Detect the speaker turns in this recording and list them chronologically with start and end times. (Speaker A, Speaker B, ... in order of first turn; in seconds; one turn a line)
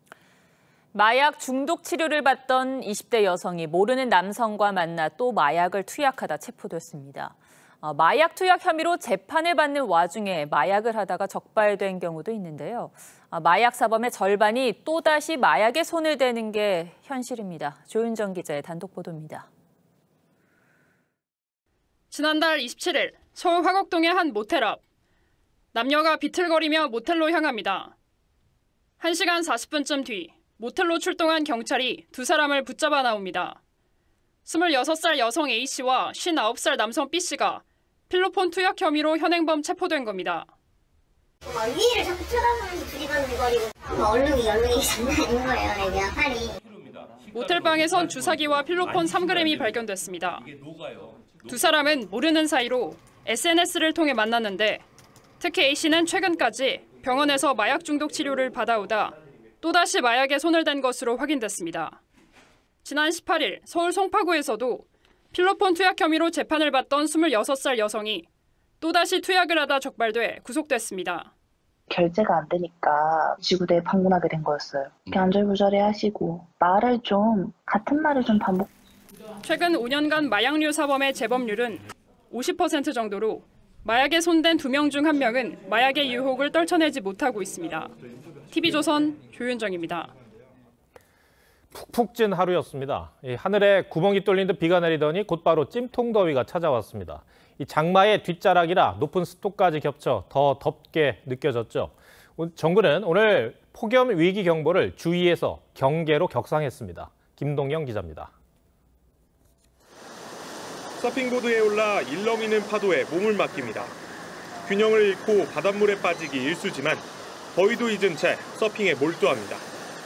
Speaker A: 0.9-19.5
Speaker B: 22.1-24.8
Speaker B: 25.7-27.9
Speaker B: 29.0-33.6
Speaker B: 34.5-40.5
Speaker C: 41.5-46.5
Speaker B: 47.3-50.5
Speaker B: 51.5-54.9
Speaker B: 55.4-62.0
Speaker B: 62.8-68.3
Speaker B: 68.8-71.3
Speaker D: 71.9-78.7
Speaker B: 79.4-87.9
Speaker B: 88.5-90.1
Speaker E: 91.7-108.3
Speaker F: 111.0-113.9
Speaker F: 114.7-119.6